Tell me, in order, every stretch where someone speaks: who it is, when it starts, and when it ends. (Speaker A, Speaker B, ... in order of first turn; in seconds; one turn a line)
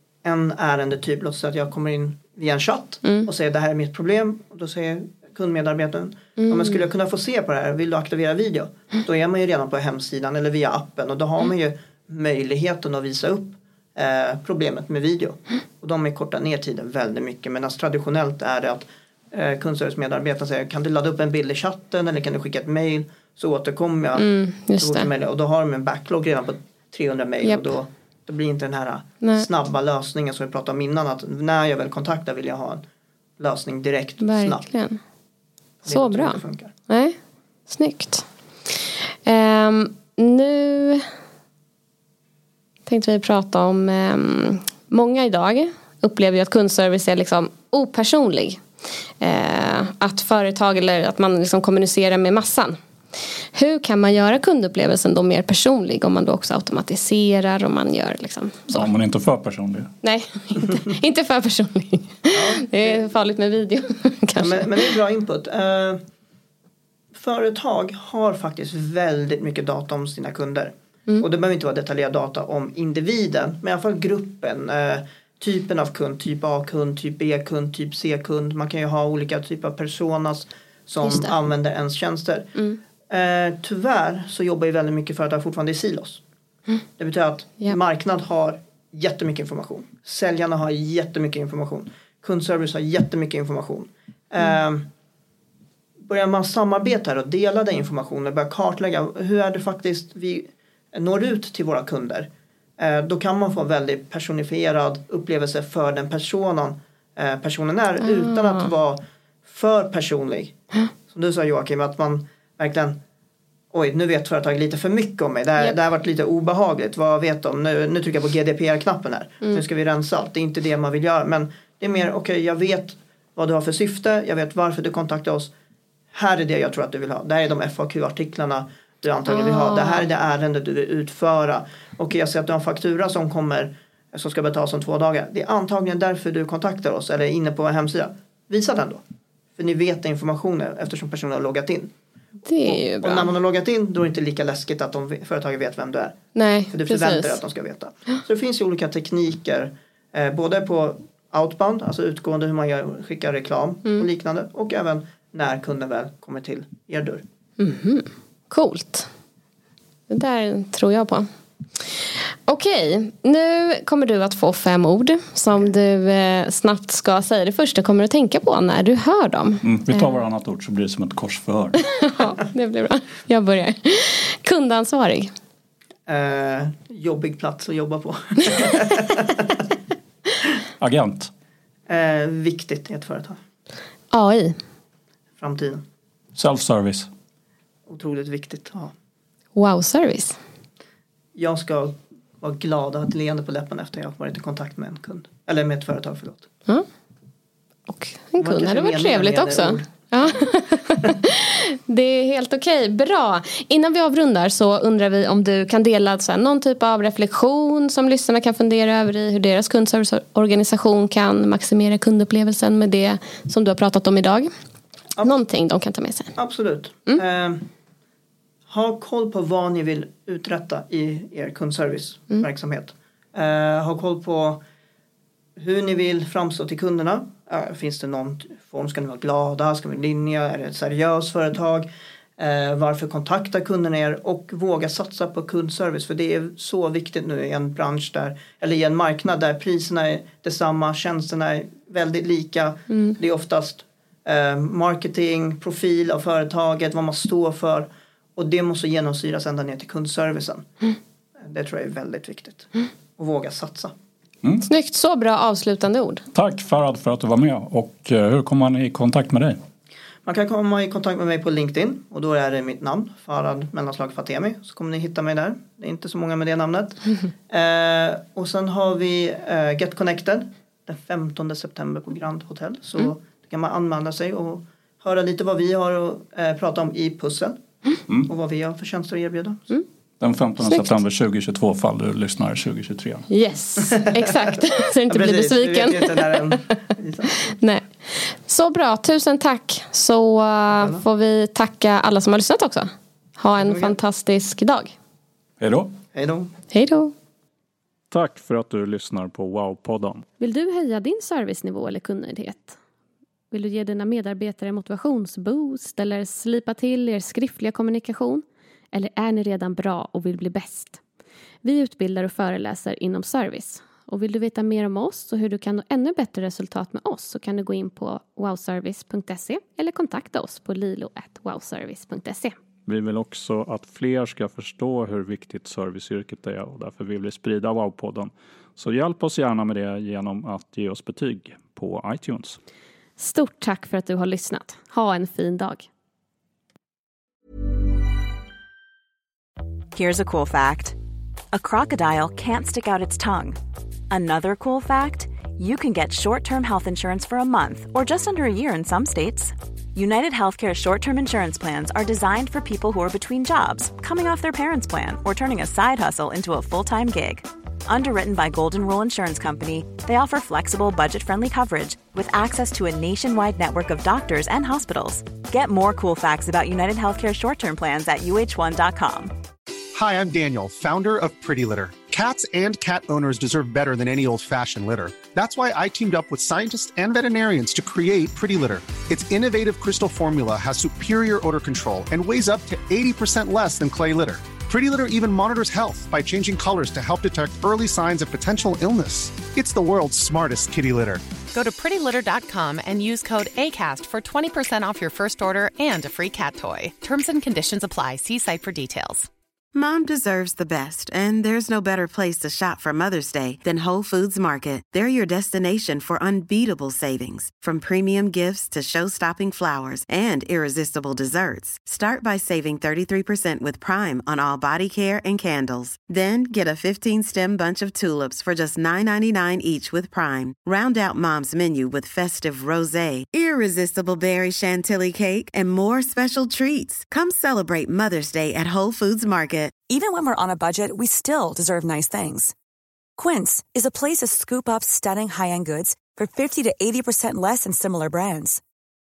Speaker A: 0.2-32.8
Speaker B: 6.4-6.8
Speaker B: 24.2-25.1
Speaker B: 27.4-27.7
Speaker A: 33.4-34.6
Speaker B: 34.2-35.0
Speaker A: 35.8-36.7
Speaker B: 35.9-37.2
Speaker B: 37.7-38.3
Speaker B: 39.2-41.0
Speaker B: 42.9-48.6
Speaker B: 49.2-52.8
Speaker B: 53.5-58.9
Speaker C: 58.7-59.9
Speaker B: 60.0-64.9
Speaker A: 62.3-63.0
Speaker A: 64.4-66.0
Speaker A: 67.1-82.5
Speaker B: 81.0-81.3
Speaker A: 83.1-86.2
Speaker A: 87.0-94.8
Speaker A: 96.0-110.5
Speaker B: 108.0-108.7
Speaker A: 111.1-113.0
Speaker A: 113.7-125.5
Speaker A: 126.1-139.0
Speaker B: 129.3-130.0
Speaker A: 139.6-141.9
Speaker B: 142.5-143.3
Speaker A: 142.6-146.2
Speaker B: 146.3-147.4
Speaker A: 146.7-157.2
Speaker B: 157.6-159.1
Speaker B: 160.1-161.3
Speaker B: 161.8-170.2
Speaker C: 169.6-171.8
Speaker B: 171.9-175.3
Speaker A: 176.1-179.6
Speaker C: 180.8-181.3
Speaker A: 181.9-183.4
Speaker B: 184.1-184.6
Speaker A: 185.4-185.8
Speaker C: 186.3-187.1
Speaker A: 187.9-188.9
Speaker B: 189.5-190.4
Speaker A: 191.3-196.5
Speaker B: 197.9-214.5
Speaker A: 198.4-200.3
Speaker B: 215.2-216.3
Speaker A: 216.3-217.7
Speaker A: 218.7-224.6
Speaker A: 225.6-250.7
Speaker B: 242.9-243.2
Speaker A: 251.4-253.9
Speaker B: 254.6-256.2
Speaker C: 256.3-259.6
Speaker A: 260.2-277.6
Speaker A: 278.2-279.7
Speaker C: 280.2-283.3
Speaker B: 280.6-281.0
Speaker B: 283.3-286.6
Speaker A: 283.8-284.2
Speaker A: 285.1-287.5
Speaker B: 287.4-294.9
Speaker A: 290.7-291.0
Speaker A: 293.6-293.9
Speaker C: 295.6-295.9
Speaker A: 296.1-296.5
Speaker B: 296.7-297.1
Speaker C: 298.1-300.2
Speaker B: 300.4-302.8
Speaker B: 303.5-311.0
Speaker B: 311.6-322.6
Speaker C: 322.9-332.6
Speaker B: 333.2-335.9
Speaker D: 339.9-341.0
Speaker D: 341.5-343.6
Speaker D: 344.1-369.3
Speaker E: 369.9-391.2
Speaker F: 391.5-399.3
Speaker G: 399.7-429.8
Speaker H: 429.9-432.5
Speaker H: 433.2-438.6